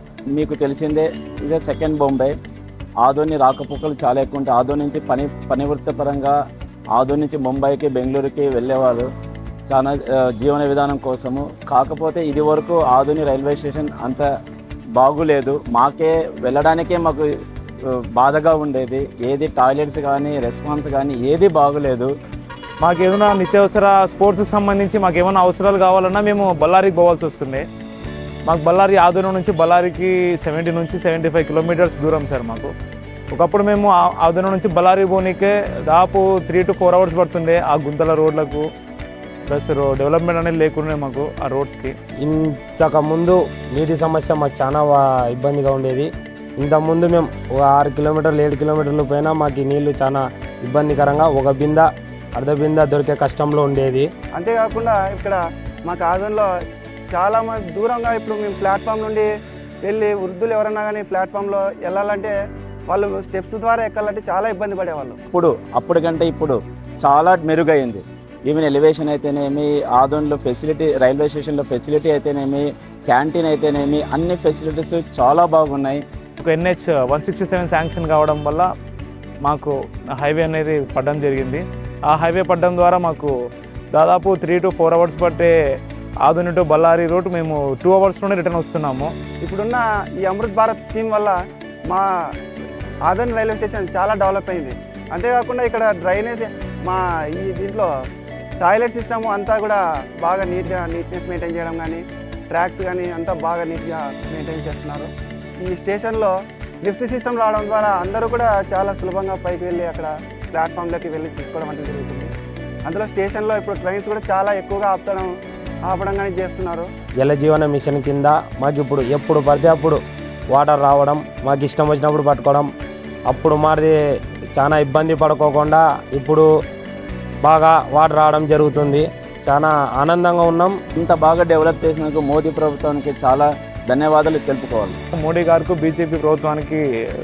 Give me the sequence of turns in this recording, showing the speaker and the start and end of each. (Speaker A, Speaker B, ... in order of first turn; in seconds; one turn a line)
Speaker A: 0.3-2.4
Speaker A: 3.0-6.4
Speaker A: 6.9-9.1
Speaker A: 9.7-14.3
Speaker A: 14.9-17.3
Speaker A: 17.9-22.1
Speaker B: 22.8-27.6
Speaker B: 28.5-32.7
Speaker B: 33.3-38.6
Speaker B: 39.5-41.9
Speaker C: 42.2-54.1
Speaker D: 54.3-56.5
Speaker D: 57.1-59.3
Speaker D: 59.8-62.3
Speaker D: 62.9-65.2
Speaker A: 65.3-76.0
Speaker B: 76.4-78.7
Speaker B: 79.4-83.3
Speaker B: 83.9-85.5
Speaker B: 86.2-89.1
Speaker D: 89.4-91.4
Speaker D: 93.1-97.9
Speaker D: 98.6-105.1
Speaker D: 105.6-112.3
Speaker D: 112.8-115.3
Speaker D: 115.9-116.9
Speaker C: 117.2-120.0
Speaker C: 120.5-122.7
Speaker C: 123.3-124.0
Speaker C: 124.5-126.5
Speaker C: 127.4-130.8
Speaker A: 131.0-135.0
Speaker B: 135.1-136.8